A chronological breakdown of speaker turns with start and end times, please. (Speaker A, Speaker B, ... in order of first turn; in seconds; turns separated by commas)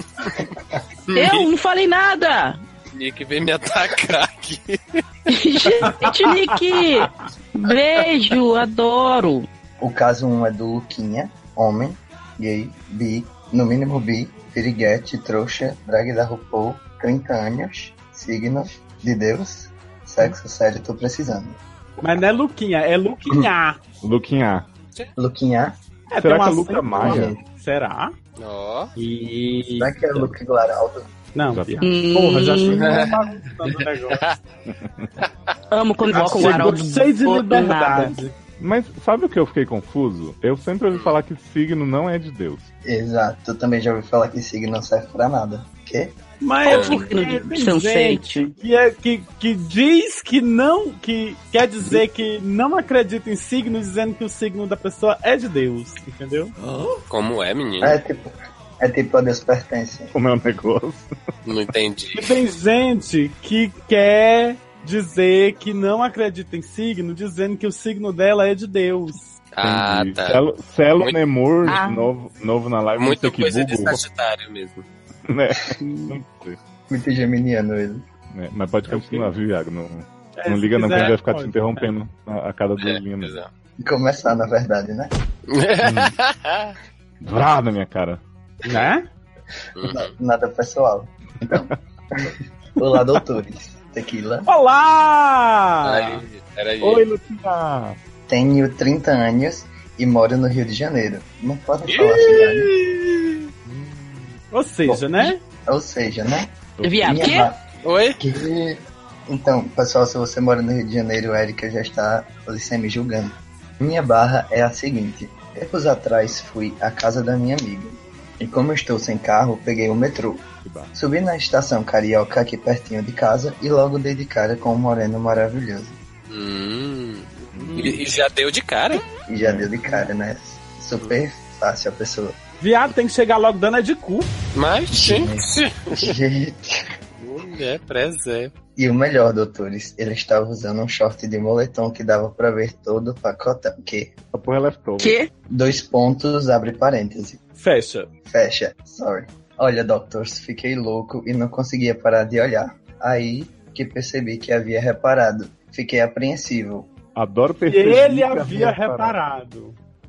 Speaker A: 1.1-1.5, Speaker B: 1.1-2.6, Speaker A: 2.9-5.0, Speaker B: 5.3-9.5, Speaker C: 5.9-7.1, Speaker D: 9.8-21.6, Speaker C: 22.0-23.8, Speaker E: 24.0-24.7, Speaker D: 25.2-25.7, Speaker C: 26.1-28.1, Speaker E: 26.2-27.3, Speaker D: 26.9-27.4, Speaker A: 28.4-28.9, Speaker C: 28.9-30.2, Speaker D: 29.8-31.1, Speaker C: 31.3-34.3, Speaker E: 31.5-31.9, Speaker B: 31.8-33.0, Speaker A: 32.8-33.2, Speaker A: 33.7-34.4, Speaker E: 34.7-35.1, Speaker B: 35.7-38.2, Speaker C: 36.1-38.3, Speaker E: 38.6-42.7, Speaker A: 40.9-41.2, Speaker D: 42.8-46.1, Speaker C: 46.4-56.5, Speaker B: 46.6-48.5, Speaker A: 46.7-47.0, Speaker A: 57.1-58.0, Speaker D: 57.8-60.1, Speaker E: 60.1-61.1, Speaker A: 61.4-62.3, Speaker C: 62.1-69.4, Speaker A: 69.5-70.4, Speaker E: 69.6-74.0, Speaker B: 71.6-72.1, Speaker A: 73.0-74.8, Speaker E: 75.3-76.6, Speaker D: 76.9-78.0, Speaker E: 78.3-83.4, Speaker C: 78.9-79.3, Speaker C: 80.4-81.9, Speaker A: 82.8-83.5, Speaker D: 83.8-85.1, Speaker A: 85.5-86.7, Speaker E: 85.8-86.1, Speaker E: 87.2-88.2, Speaker C: 88.6-89.0, Speaker A: 89.8-90.1, Speaker D: 89.8-94.5, Speaker C: 94.5-96.2, Speaker A: 95.8-97.0, Speaker E: 96.8-98.0, Speaker D: 98.3-102.7, Speaker A: 101.9-102.8, Speaker C: 103.7-105.4, Speaker D: 104.8-107.6, Speaker E: 106.8-107.4, Speaker B: 106.8-107.5, Speaker A: 107.8-108.2, Speaker D: 108.2-126.0, Speaker E: 120.6-120.9, Speaker A: 126.3-129.0, Speaker E: 127.5-128.0, Speaker C: 127.6-128.0, Speaker D: 129.3-132.3, Speaker E: 129.4-129.7, Speaker C: 132.6-134.3, Speaker A: 134.5-136.1, Speaker D: 134.9-136.9, Speaker A: 137.2-138.5, Speaker D: 138.8-144.1, Speaker E: 144.3-145.2, Speaker B: 145.0-145.3, Speaker D: 145.5-147.4, Speaker C: 147.6-148.1, Speaker D: 148.2-156.9, Speaker E: 157.1-159.2, Speaker C: 157.7-159.8